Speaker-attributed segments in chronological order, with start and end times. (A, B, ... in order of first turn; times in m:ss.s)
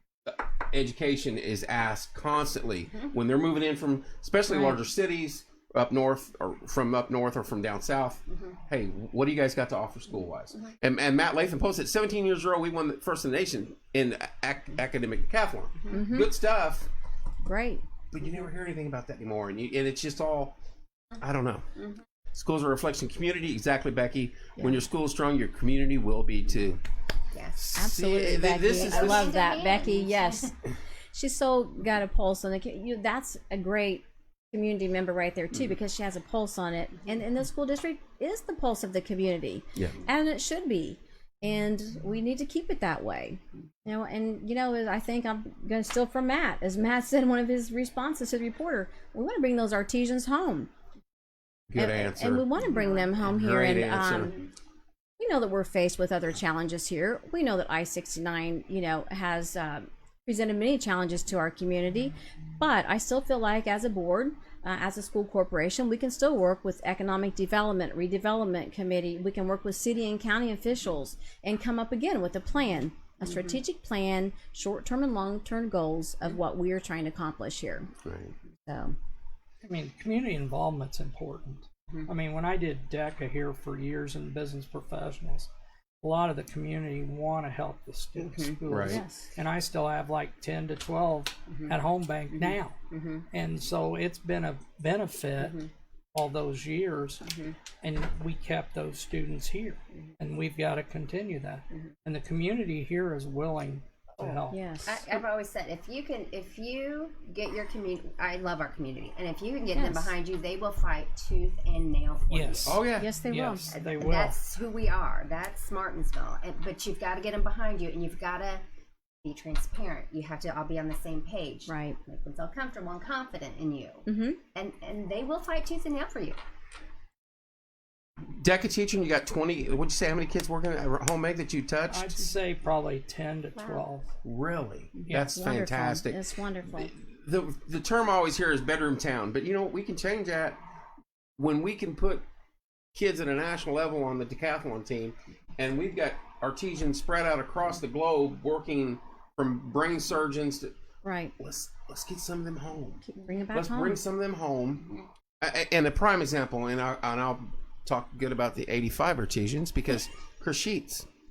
0:00.3-0:16.9 A
0:04.5-0:04.8 B
0:08.3-0:08.6 C
0:15.9-0:16.3 B
0:17.4-0:17.8 B
0:18.1-0:20.6 A
0:21.2-0:21.7 A
0:21.8-0:22.0 C
0:22.3-0:26.8 A
0:27.6-0:29.3 A
0:27.8-0:30.5 B
0:28.7-0:30.5 C
0:31.1-0:50.7 B
0:51.7-0:52.5 A
0:51.8-0:54.5 B
0:52.7-0:53.1 C
0:53.2-0:54.3 A
0:55.2-1:17.9 B
1:13.2-1:13.6 C
1:18.0-1:18.3 A
1:18.7-1:19.0 B
1:19.6-1:25.5 D
1:26.0-1:32.8 D
1:28.2-1:28.6 C
1:28.7-1:29.0 A
1:28.9-1:29.3 B
1:32.3-1:33.3 C
1:33.3-1:35.6 D
1:35.4-1:35.7 C
1:36.1-1:37.2 D
1:37.2-1:37.6 C
1:37.8-1:44.7 D
1:44.5-1:44.9 B
1:44.8-1:52.8 C
1:49.7-1:50.1 B
1:52.3-1:54.4 D
1:52.7-1:53.1 A
1:53.0-1:53.7 B
1:53.7-1:58.6 C
1:59.2-2:06.4 C
2:01.7-2:02.0 B
2:04.1-2:04.4 B
2:08.3-2:12.3 A
2:11.9-2:14.1 D
2:13.6-2:13.8 C
2:14.2-2:16.2 A
2:15.0-2:16.9 B
2:16.8-2:20.6 A
2:21.4-2:22.2 A
2:22.9-2:30.7 A
2:31.0-2:31.3 B
2:31.4-2:41.1 A
2:33.1-2:34.0 B